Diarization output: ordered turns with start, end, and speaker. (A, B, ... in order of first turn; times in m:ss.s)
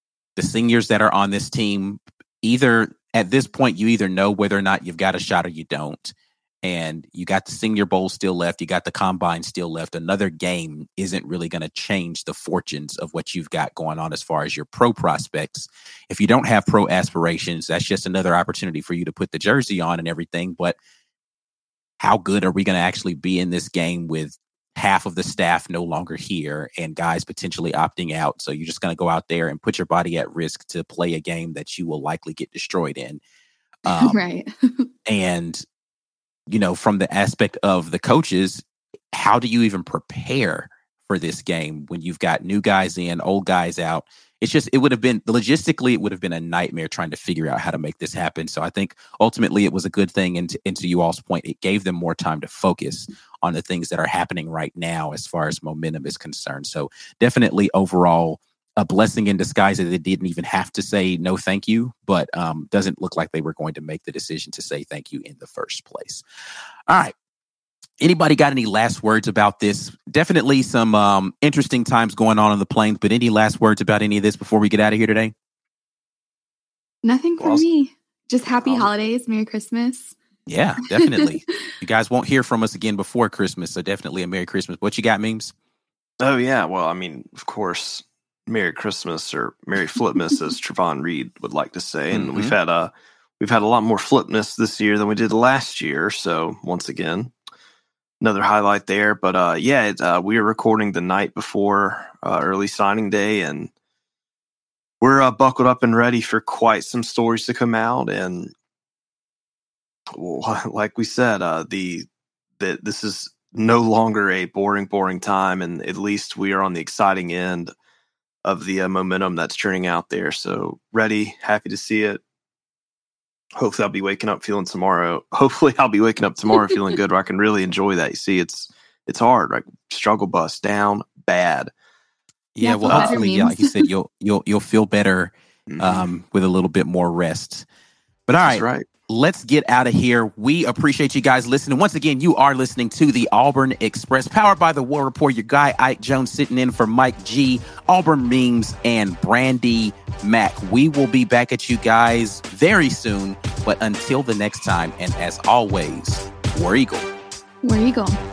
0:00.4-0:20.8 A
0:22.0-0:33.2 A
0:33.9-0:34.2 A
0:33.9-0:34.9 B
0:35.1-0:35.6 A
0:36.5-1:06.2 A
1:06.9-1:07.1 A
1:08.0-1:15.3 A
1:17.0-1:20.2 B
1:17.4-1:17.6 C
1:18.6-1:18.9 C
1:20.5-1:25.5 A
1:26.2-1:37.3 C
1:32.1-1:32.6 A
1:38.2-1:43.7 C
1:45.0-1:48.5 C
1:50.1-1:52.1 C
1:52.6-1:57.7 C
1:58.4-2:02.2 C
2:03.6-2:11.7 C
2:12.6-2:17.7 A
2:12.6-2:13.9 B
2:12.9-2:13.2 C
2:15.7-2:16.1 C
2:18.3-2:37.1 A
2:18.4-2:18.9 C
2:37.6-2:38.2 B